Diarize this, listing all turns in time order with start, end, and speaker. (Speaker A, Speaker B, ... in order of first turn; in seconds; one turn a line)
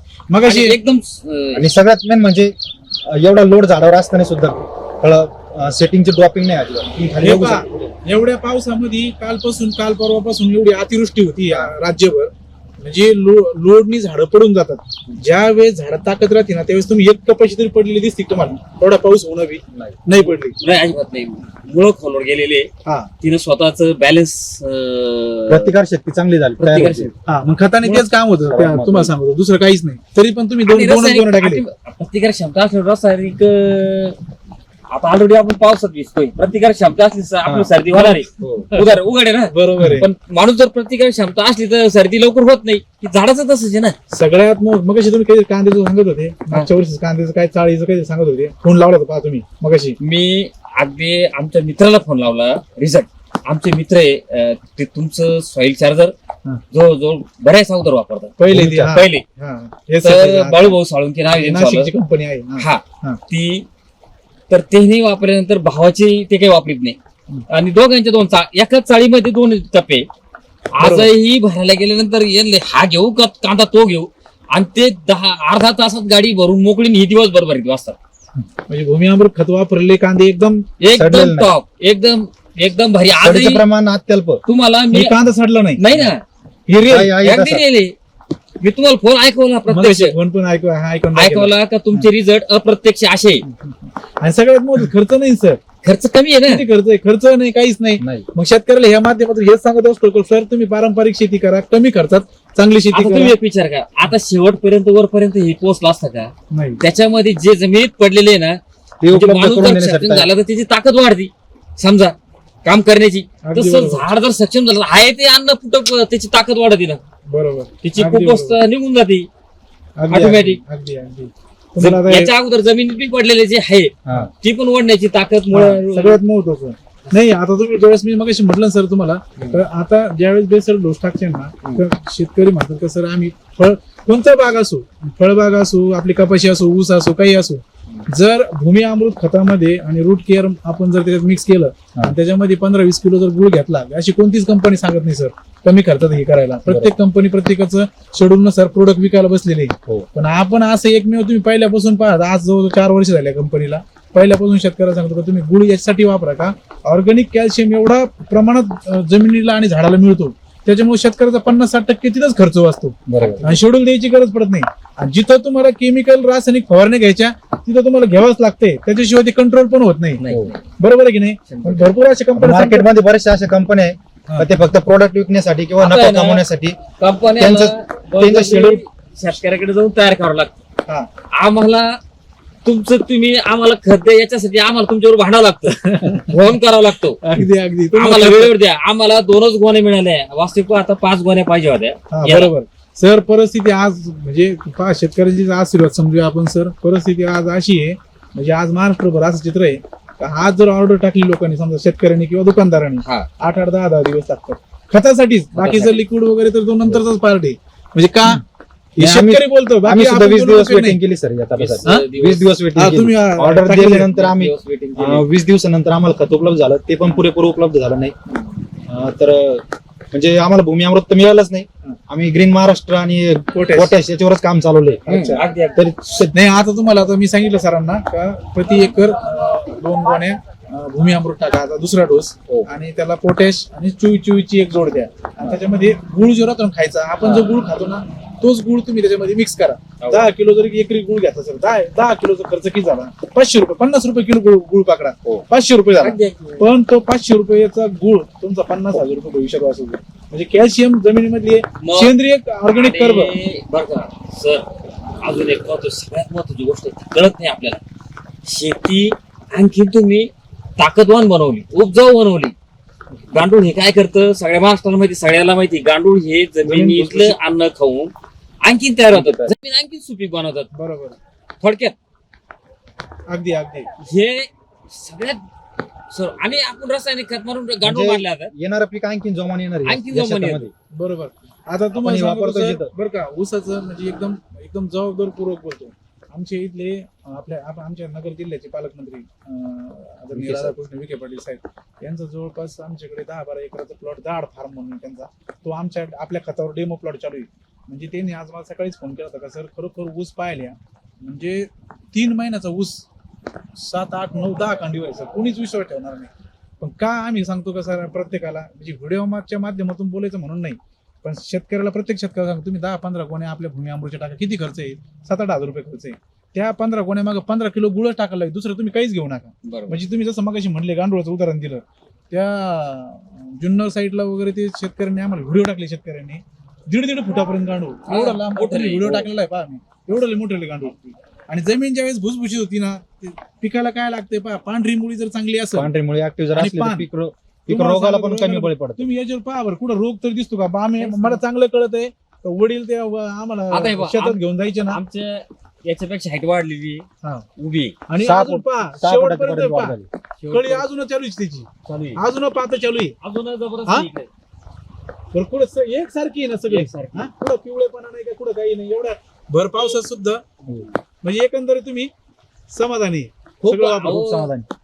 Speaker A: 0.3-0.8
Speaker B: 0.4-1.7
Speaker C: 1.6-7.9
Speaker A: 7.2-20.6
Speaker C: 11.4-11.7
Speaker C: 19.7-20.0
Speaker B: 20.6-22.7
Speaker B: 23.2-25.7
Speaker C: 25.5-27.1
Speaker B: 26.6-27.1
Speaker A: 27.2-31.6
Speaker C: 27.8-29.1
Speaker B: 30.6-34.2
Speaker B: 34.9-43.9
Speaker C: 37.4-37.7
Speaker A: 37.9-38.9
Speaker C: 38.4-38.7
Speaker A: 39.5-40.1
Speaker A: 44.1-50.0
Speaker B: 50.0-56.1
Speaker B: 56.7-59.2
Speaker A: 58.4-60.8
Speaker C: 58.5-58.9
Speaker B: 60.0-61.9
Speaker A: 61.3-63.2
Speaker B: 62.6-63.7
Speaker B: 64.5-67.0
Speaker B: 67.5-70.1
Speaker B: 70.7-78.0
Speaker A: 70.8-71.1
Speaker A: 78.7-80.6
Speaker B: 80.8-83.6
Speaker C: 80.9-81.5
Speaker C: 83.2-84.4
Speaker B: 84.4-85.1
Speaker A: 84.9-85.8
Speaker B: 85.8-86.2
Speaker A: 86.7-87.2
Speaker C: 86.9-87.6
Speaker B: 87.2-87.9
Speaker B: 88.6-90.1
Speaker A: 89.7-92.1
Speaker B: 91.1-93.4
Speaker A: 93.5-95.6
Speaker B: 95.8-96.7
Speaker A: 96.5-103.4
Speaker C: 98.0-98.3
Speaker B: 102.9-117.0
Speaker A: 106.5-106.8
Speaker C: 109.0-110.3
Speaker A: 113.4-114.1
Speaker A: 117.3-118.6
Speaker B: 117.8-119.3
Speaker A: 120.0-122.3
Speaker B: 120.1-120.6
Speaker B: 121.8-126.2
Speaker C: 124.0-124.3
Speaker A: 125.5-170.2
Speaker C: 146.7-146.9
Speaker C: 163.1-163.6
Speaker B: 163.2-163.6
Speaker B: 170.2-170.6
Speaker C: 170.2-170.5
Speaker A: 170.8-172.9
Speaker B: 171.5-171.8
Speaker C: 172.3-176.8
Speaker B: 175.8-176.4
Speaker B: 177.0-180.5
Speaker C: 177.3-178.8
Speaker B: 181.3-182.0
Speaker B: 182.7-187.2
Speaker A: 185.8-186.3
Speaker A: 187.2-188.5
Speaker B: 187.9-192.5
Speaker A: 192.1-208.4
Speaker B: 205.5-206.0
Speaker A: 209.0-211.0
Speaker C: 209.0-218.2
Speaker B: 211.6-212.5
Speaker A: 212.8-214.2
Speaker B: 214.1-215.3
Speaker C: 218.9-226.3
Speaker A: 223.5-224.0
Speaker A: 225.1-225.4
Speaker B: 225.1-225.8
Speaker A: 226.3-253.3
Speaker B: 240.0-240.3
Speaker B: 246.0-246.7
Speaker B: 251.8-252.1
Speaker B: 252.7-254.7
Speaker B: 255.2-257.8
Speaker B: 258.4-262.5
Speaker B: 263.3-268.1
Speaker A: 266.6-267.4
Speaker B: 268.6-270.7
Speaker C: 269.1-269.5
Speaker A: 270.7-271.2
Speaker B: 271.6-271.9
Speaker A: 273.3-273.9
Speaker B: 274.0-275.4
Speaker B: 276.1-278.5
Speaker C: 277.8-280.7
Speaker B: 279.8-280.7
Speaker A: 280.9-303.1
Speaker C: 281.9-282.9
Speaker C: 290.3-290.8
Speaker A: 303.8-330.9
Speaker B: 319.6-320.0
Speaker B: 328.1-329.3
Speaker A: 331.5-335.9
Speaker C: 335.7-339.1
Speaker A: 336.5-337.1
Speaker A: 337.7-345.0
Speaker B: 341.0-341.4
Speaker B: 343.7-347.1
Speaker B: 347.6-347.9
Speaker A: 348.1-350.0
Speaker C: 348.2-350.1
Speaker B: 350.4-350.9
Speaker A: 350.5-353.1
Speaker B: 351.9-352.2
Speaker B: 353.2-354.3
Speaker A: 355.3-360.4
Speaker B: 356.7-357.3
Speaker A: 361.2-362.1
Speaker A: 362.7-364.7
Speaker B: 363.6-364.5